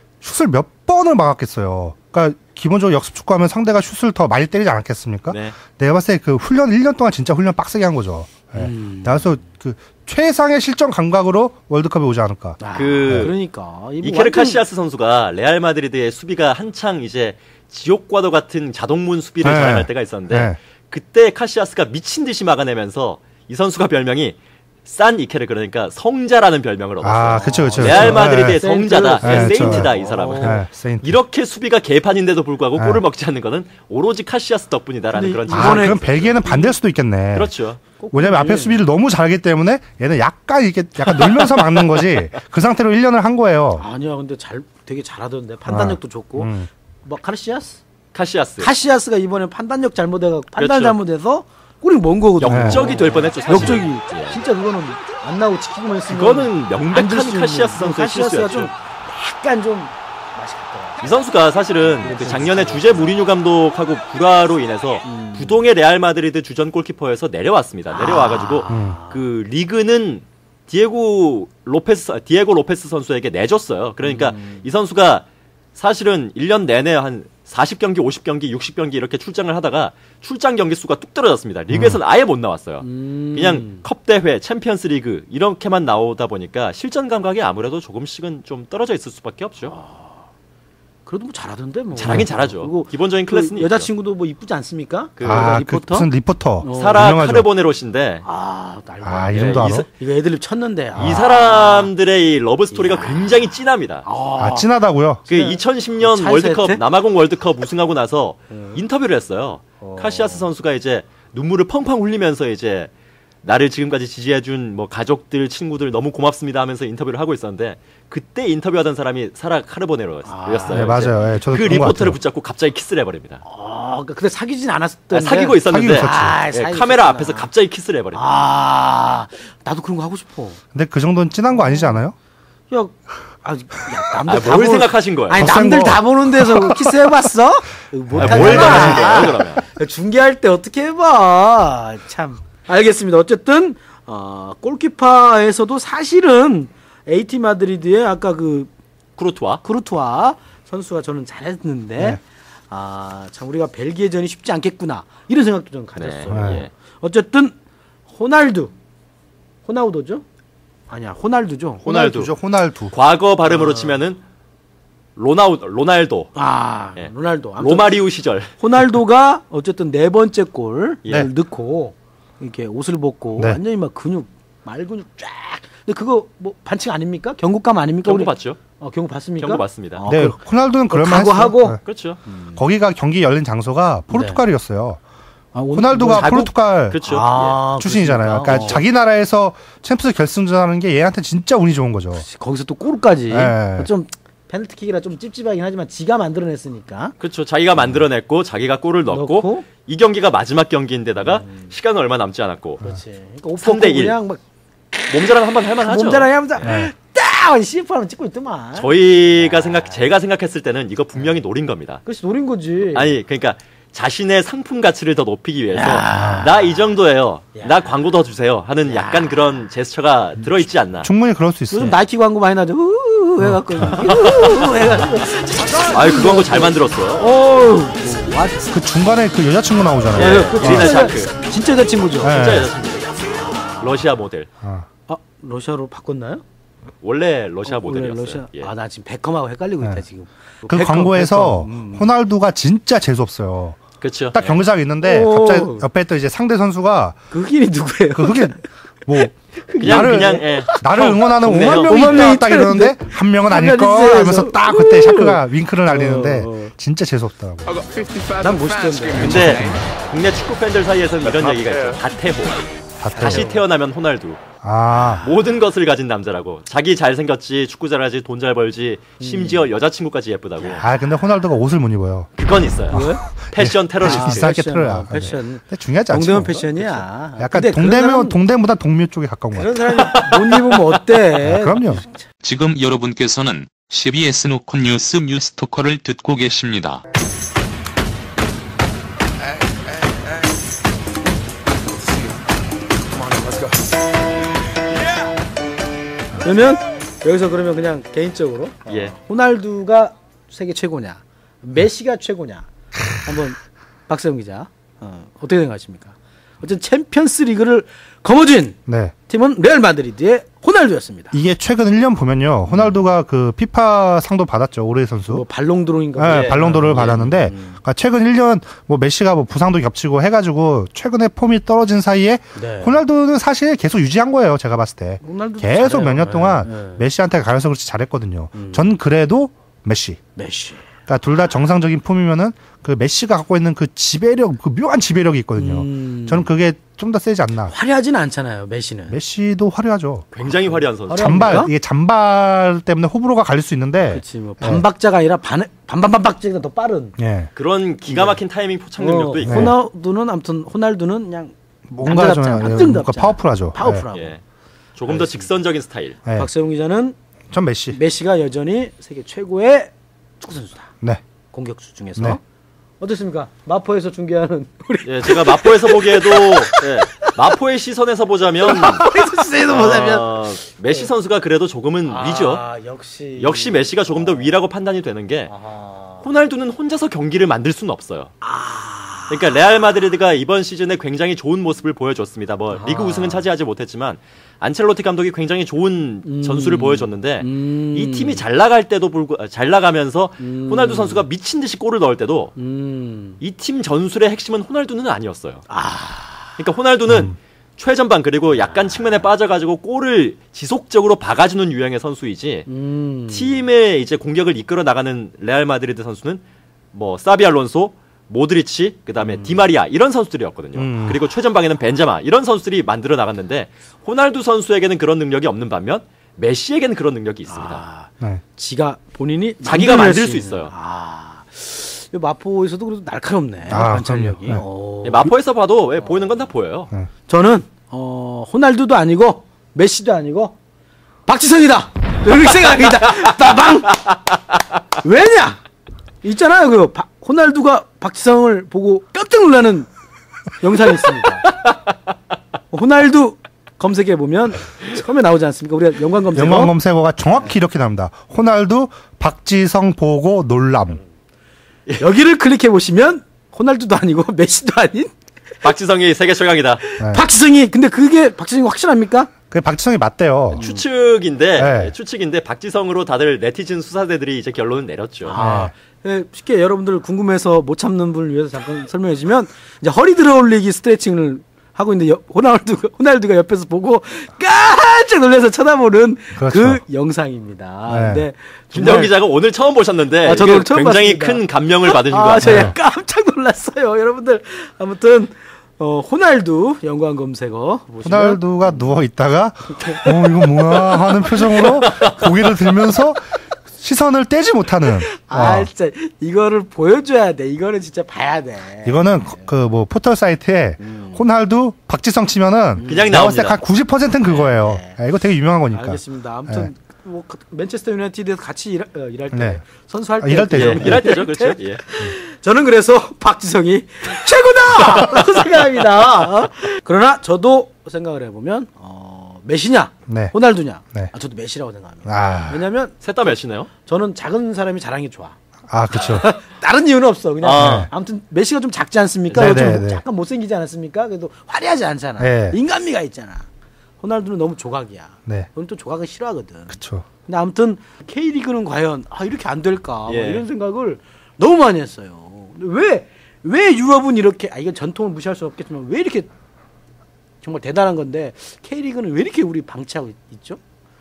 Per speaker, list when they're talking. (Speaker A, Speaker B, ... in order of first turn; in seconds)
Speaker A: 0.2-13.3, 19.4-20.6, 27.0-28.6, 29.2-31.2, 32.8-33.0, 35.5-37.5, 38.1-43.8, 45.7-46.7, 52.5-52.9, 68.7-69.0, 81.7-82.0, 95.2-97.5, 99.0-99.8, 104.4-105.2, 120.7-122.2, 125.7-126.4, 130.7-132.1, 135.3-137.1, 138.1-139.5, 156.3-156.6, 161.8-162.9, 180.1-181.8, 182.6-185.0, 185.7-187.0, 187.8-192.2, 193.3-193.9, 206.6-206.9, 216.1-216.5, 221.0-221.9, 223.4-224.1, 228.7-231.1, 232.2-232.7, 240.7-243.8, 244.3-247.2, 248.2-257.8, 259.2-259.8, 263.0-263.5, 264.6-265.2, 270.8-272.3, 272.9-280.6, 281.4-282.0, 308.9-309.1, 311.3-315.4, 316.1-330.2, 331.1-337.7, 339.1-340.3, 341.1-344.8, 347.2-347.5, 349.4-349.7, 351.9-354.0, 357.5-358.0, 397.1-397.3, 410.7-411.2, 423.7-424.6, 446.3-451.0, 457.0-457.2, 459.5-460.6, 461.6-461.9, 465.4-465.7, 476.4-476.8, 477.9-478.2, 482.4-482.7, 488.0-495.7, 498.8-506.7, 509.3-509.6, 510.2-511.0, 520.1-520.3, 522.0-522.6, 525.7-526.2, 527.6-527.9, 529.3-530.0, 532.2-532.6, 536.7-537.0
Speaker B: 5.3-5.6, 12.7-13.3, 14.0-36.4, 37.3-37.8, 41.2-41.5, 48.1-48.7, 50.6-50.9, 52.4-54.4, 56.1-58.7, 61.0-89.7, 91.9-93.9, 95.2-95.5, 96.7-98.2, 99.3-99.9, 101.0-104.0, 105.3-112.9, 113.4-123.4, 125.1-128.2, 134.3-135.5, 138.2-139.6, 149.2-149.6, 155.9-156.7, 161.8-162.3, 162.9-164.2, 165.2-166.3, 167.0-168.5, 178.0-178.6, 179.4-180.1, 181.8-182.2, 186.1-187.6, 188.4-188.8, 197.2-202.8, 203.6-204.1, 205.1-206.7, 208.7-212.0, 212.9-221.1, 224.1-224.6, 225.9-227.2, 230.2-231.3, 232.2-234.5, 237.0-238.7, 244.0-244.6, 249.8-252.2, 259.2-264.4, 265.2-270.8, 272.4-274.5, 298.9-299.1, 316.3-317.2, 340.3-341.6, 347.6-349.7, 354.1-354.4, 355.0-356.2, 365.0-369.1, 369.7-372.6, 373.4-375.5, 376.2-378.3, 379.3-392.5, 393.4-395.6, 396.6-402.7, 403.3-406.4, 406.9-417.8, 419.6-420.7, 425.0-426.9, 455.6-456.8, 460.6-465.4, 478.7-482.7, 502.9-503.6, 510.5-511.8, 523.0-523.7, 527.4-527.9, 529.3-529.7, 540.1-540.4
Speaker C: 8.5-9.4, 12.6-14.6, 27.3-30.6, 35.1-36.7, 38.0-38.8, 43.8-47.8, 48.6-61.1, 61.8-63.1, 65.0-65.6, 67.9-69.2, 74.0-74.6, 82.8-83.8, 89.7-90.2, 91.0-96.1, 96.6-97.1, 98.2-101.9, 102.7-103.5, 104.0-104.7, 105.2-106.8, 108.5-108.8, 109.8-110.4, 120.2-121.7, 123.4-127.5, 128.1-130.6, 131.5-132.0, 132.7-148.7, 149.6-157.5, 158.1-158.7, 159.6-160.2, 160.9-161.9, 163.4-164.0, 166.3-168.0, 168.6-182.6, 184.1-184.4, 185.5-186.4, 187.0-188.8, 192.1-197.1, 199.1-199.7, 201.2-201.7, 202.8-204.4, 204.9-210.0, 212.0-213.2, 215.7-216.9, 217.5-217.8, 218.8-219.6, 221.7-228.7, 230.1-232.5, 235.1-236.4, 237.7-242.1, 245.0-245.9, 247.3-248.6, 249.1-256.7, 258.3-259.8, 263.1-263.5, 264.9-265.5, 269.2-269.7, 270.6-270.8, 272.9-273.2, 274.0-278.4, 279.5-282.2, 296.4-311.4, 312.7-313.1, 315.3-317.8, 322.5-323.0, 325.2-327.0, 328.5-328.9, 330.4-330.8, 335.5-336.5, 337.7-339.2, 340.5-341.7, 344.1-347.1, 348.1-348.4, 349.0-354.3, 355.1-355.5, 356.3-357.2, 357.9-360.9, 361.5-362.4, 363.0-367.3, 368.7-370.4, 372.0-374.6, 375.5-376.2, 378.4-379.6, 382.7-383.4, 386.2-388.4, 390.4-391.2, 392.6-393.4, 395.7-396.6, 398.6-399.2, 402.7-403.6, 409.2-409.6, 417.5-425.3, 427.3-430.5, 431.2-434.2, 435.0-435.6, 436.2-439.9, 440.6-441.5, 442.7-446.7, 452.0-455.1, 456.8-459.3, 460.5-460.8, 465.2-479.1, 480.2-488.9, 489.7-491.9, 494.8-499.5, 500.8-501.2, 502.8-503.1, 504.3-505.0, 505.7-523.0, 523.7-525.4, 525.9-533.5, 534.0-546.3, 547.4-550.6
Speaker D: 282.4-287.0